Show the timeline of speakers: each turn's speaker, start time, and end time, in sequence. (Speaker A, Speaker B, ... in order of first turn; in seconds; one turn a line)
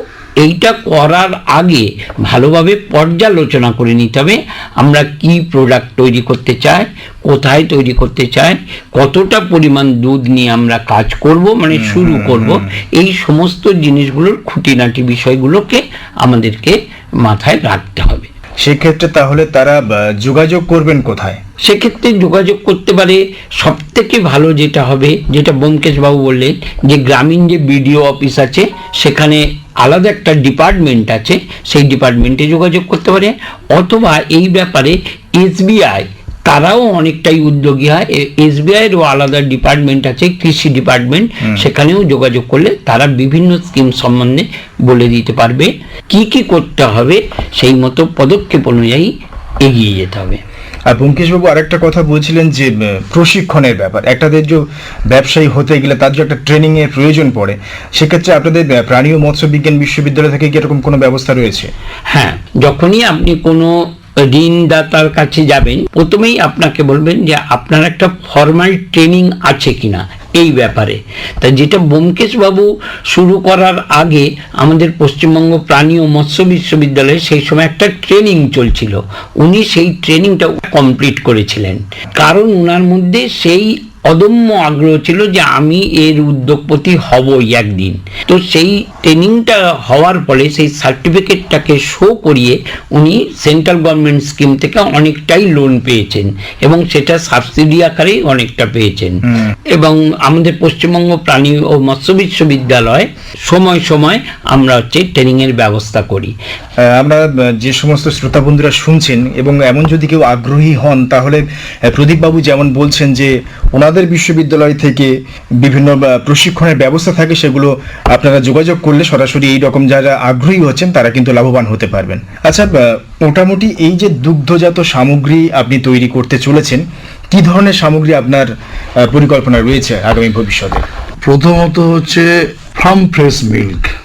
Speaker A: 0.4-18.3
Speaker B: 11.7-12.6
Speaker B: 18.6-21.4
Speaker A: 21.6-49.1
Speaker B: 41.4-41.7
Speaker A: 49.6-50.4
Speaker B: 50.9-61.7
Speaker A: 62.1-63.7
Speaker A: 64.3-99.2
Speaker A: 99.7-106.3
Speaker B: 106.8-128.5
Speaker B: 129.0-130.8
Speaker C: 131.2-133.9